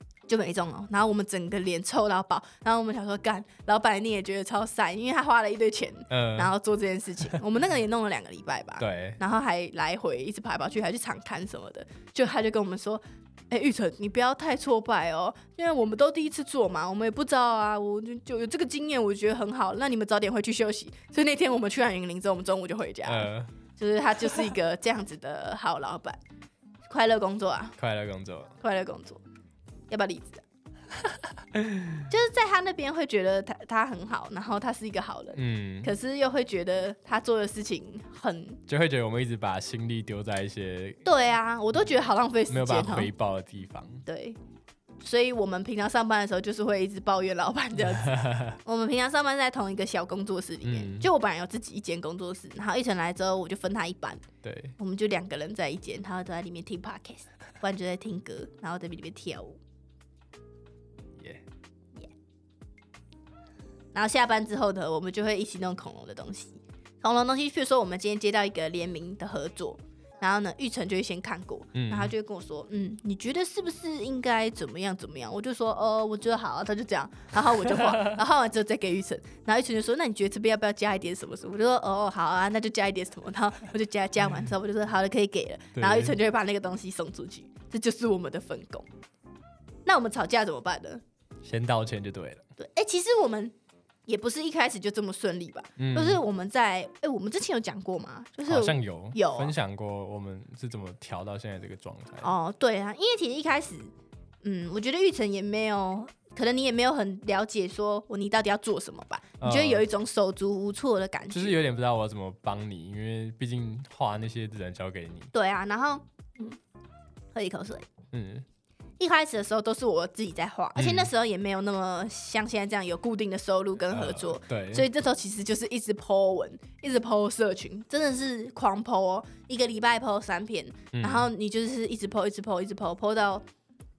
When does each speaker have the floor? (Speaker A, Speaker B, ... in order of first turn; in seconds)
Speaker A: 0.3-26.2, 26.9-27.8, 28.6-29.2, 29.9-30.4, 32.1-38.6, 41.0-43.1, 44.0-44.4, 45.0-54.2, 54.8-59.6, 63.9-88.8, 89.8-91.0, 92.6-93.5, 94.1-99.5, 102.2-103.9, 104.4-111.6, 115.3-116.6, 117.3-117.9, 119.0-133.4
Speaker B: 6.1-6.5, 8.8-9.2, 23.0-23.5, 27.8-28.5, 31.5-32.0, 35.3-35.9, 38.7-41.0, 42.5-44.0, 47.9-48.6, 50.6-51.1, 54.4-54.7, 61.2-61.4, 71.7-72.1, 77.7-78.1, 85.8-86.2, 91.4-92.4, 95.8-96.2, 98.5-102.3, 109.4-109.8, 111.3-115.3, 118.1-118.4, 120.8-121.1, 123.9-124.9, 130.9-131.3